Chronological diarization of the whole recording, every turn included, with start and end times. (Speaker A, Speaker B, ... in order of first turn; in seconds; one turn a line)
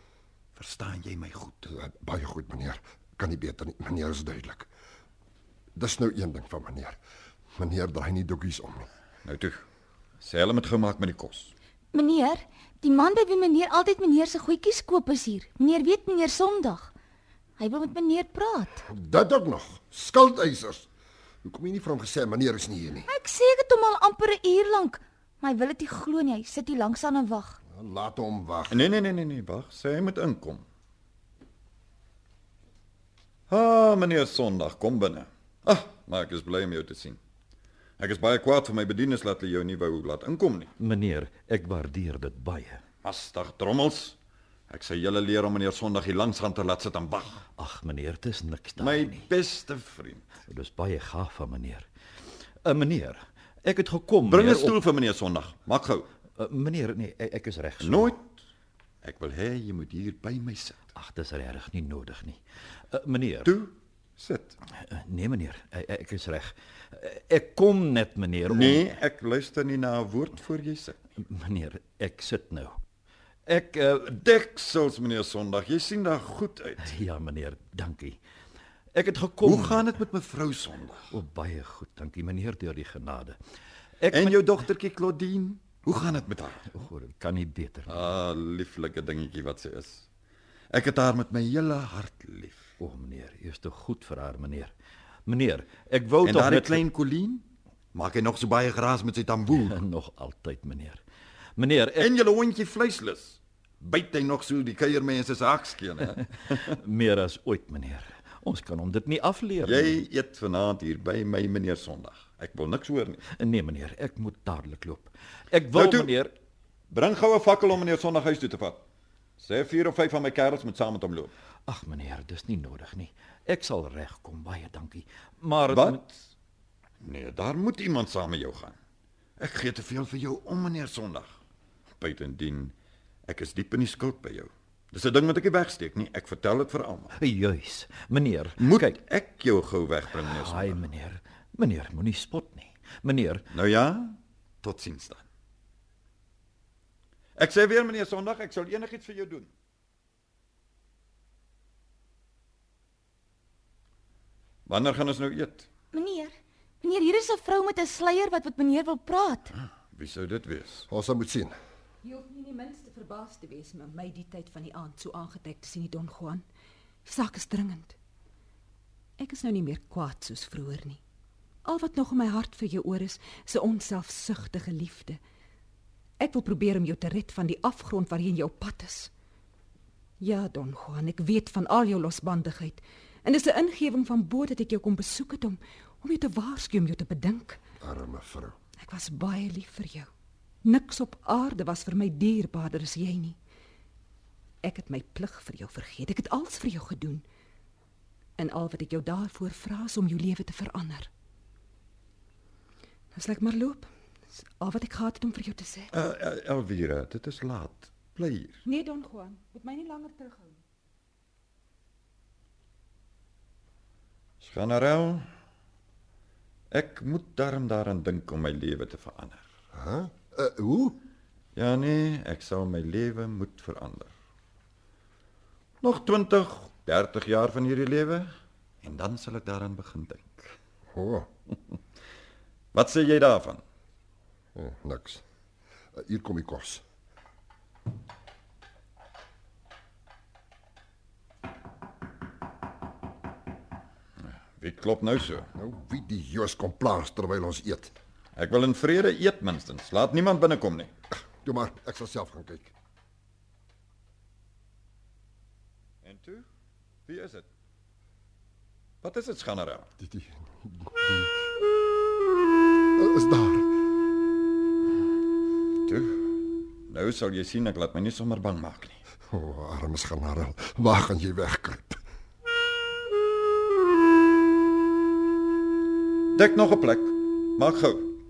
Speaker A: 0.6-1.7
Speaker B: 1.7-4.7
Speaker B: 5.8-7.0
Speaker B: 7.6-8.9
Speaker A: 9.2-9.7
Speaker A: 10.2-11.5
Speaker C: 11.9-16.9
Speaker C: 17.6-18.8
Speaker B: 18.9-20.9
Speaker B: 21.4-23.1
Speaker C: 23.1-27.6
Speaker B: 27.7-28.8
Speaker A: 28.7-30.6
Speaker A: 33.5-37.2
Speaker A: 38.0-40.7
Speaker D: 40.8-42.8
Speaker A: 43.0-44.2
Speaker A: 44.7-47.4
Speaker D: 47.6-49.3
Speaker A: 48.8-50.3
Speaker D: 50.5-54.8
Speaker A: 54.3-56.1
Speaker D: 56.4-58.1
Speaker A: 57.8-58.3
Speaker A: 59.0-60.8
Speaker D: 61.0-63.5
Speaker A: 63.4-64.6
Speaker D: 64.9-69.0
Speaker A: 68.5-71.0
Speaker D: 71.2-72.8
Speaker D: 73.5-74.1
Speaker A: 74.0-77.0
Speaker D: 76.8-78.2
Speaker D: 78.9-79.9
Speaker A: 79.4-81.1
Speaker D: 81.1-83.4
Speaker D: 84.0-84.6
Speaker A: 84.1-86.7
Speaker D: 86.1-88.0
Speaker A: 87.9-90.0
Speaker A: 90.7-92.6
Speaker D: 92.8-94.7
Speaker D: 95.3-96.8
Speaker A: 96.2-99.8
Speaker D: 99.7-101.0
Speaker D: 101.6-102.1
Speaker A: 102.0-106.8
Speaker D: 106.2-110.0
Speaker A: 109.6-113.2
Speaker D: 113.3-116.3
Speaker A: 115.7-116.2
Speaker A: 116.9-118.8
Speaker A: 119.4-121.3
Speaker D: 121.7-126.3
Speaker A: 125.7-126.0
Speaker A: 127.0-128.8
Speaker A: 129.4-131.4
Speaker A: 132.0-132.7
Speaker A: 133.3-137.1
Speaker D: 137.2-139.0
Speaker A: 138.6-140.8
Speaker D: 140.1-143.5
Speaker A: 143.5-145.2
Speaker A: 147.4-149.5
Speaker A: 154.7-155.7
Speaker C: 155.9-159.5
Speaker A: 159.6-160.9
Speaker B: 160.9-161.5
Speaker E: 162.0-166.5
Speaker E: 167.1-168.0
Speaker E: 169.2-171.0
Speaker E: 171.7-175.2
Speaker E: 176.2-179.1
Speaker E: 180.2-187.6
Speaker B: 187.8-188.6
Speaker E: 188.8-190.1
Speaker E: 190.6-193.4
Speaker E: 194.6-197.2
Speaker E: 198.4-201.1
Speaker E: 203.1-205.9
Speaker A: 205.9-208.6
Speaker E: 208.7-210.6
Speaker A: 214.4-215.3
Speaker A: 216.7-219.4
Speaker B: 219.7-220.9
Speaker A: 221.6-224.1
Speaker A: 225.8-228.3
Speaker A: 228.8-230.6
Speaker B: 230.9-231.3
Speaker A: 232.7-233.6
Speaker B: 234.6-235.2
Speaker B: 236.0-236.8
Speaker A: 244.6-245.5
Speaker B: 245.6-247.9
Speaker A: 248.4-250.9
Speaker B: 251.4-252.7
Speaker A: 256.0-256.5
Speaker A: 257.1-257.5
Speaker A: 259.0-259.9
Speaker B: 260.0-261.3
Speaker B: 263.0-263.7
Speaker A: 265.9-266.3
Speaker A: 266.9-269.0
Speaker B: 269.3-272.0
Speaker A: 276.3-278.1